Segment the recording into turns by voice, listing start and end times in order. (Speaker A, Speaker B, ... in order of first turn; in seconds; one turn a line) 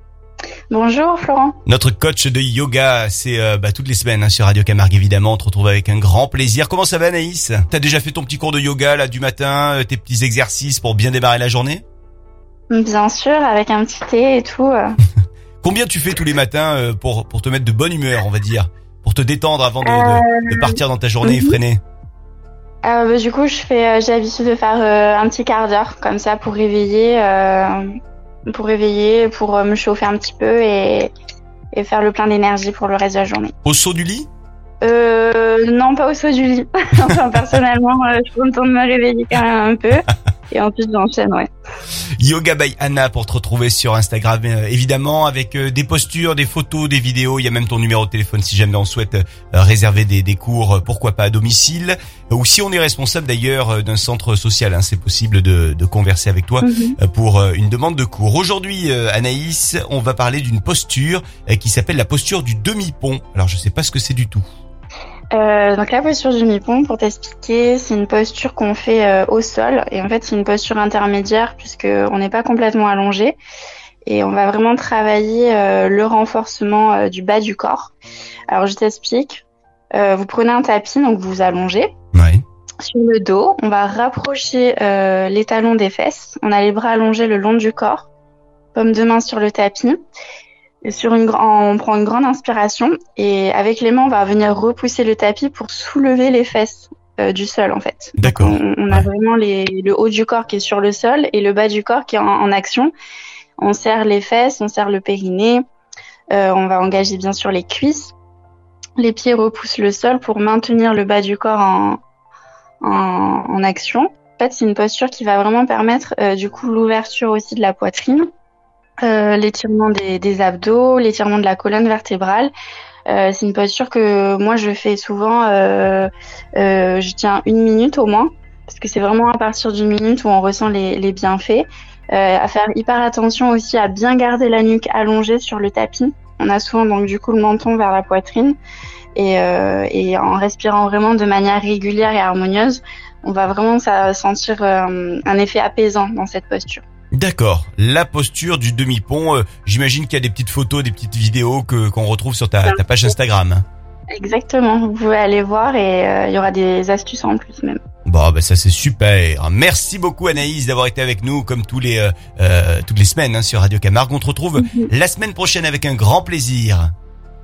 Speaker A: 0.7-1.6
Speaker B: 1.6-11.8
Speaker A: 12.7-15.0
Speaker B: 15.6-21.8
Speaker A: 19.8-21.6
Speaker A: 22.8-27.9
Speaker A: 28.5-31.1
Speaker A: 31.7-33.5
Speaker B: 33.6-34.3
Speaker A: 34.8-41.5
Speaker B: 42.2-64.4
Speaker A: 56.6-57.0
Speaker A: 65.3-73.4
Speaker A: 74.0-77.9
Speaker A: 78.5-81.9
Speaker B: 82.1-82.4
Speaker A: 82.8-88.1
Speaker A: 88.7-90.0
Speaker A: 90.8-102.9
Speaker B: 98.2-99.1
Speaker A: 103.6-105.6
Speaker A: 106.3-108.1
Speaker A: 109.0-112.0
Speaker A: 112.8-118.2
Speaker A: 119.0-122.5
Speaker A: 123.1-138.6
Speaker A: 139.1-146.8
Speaker B: 147.2-153.6
Speaker A: 154.2-157.8
Speaker B: 158.1-166.9
Speaker A: 164.6-164.9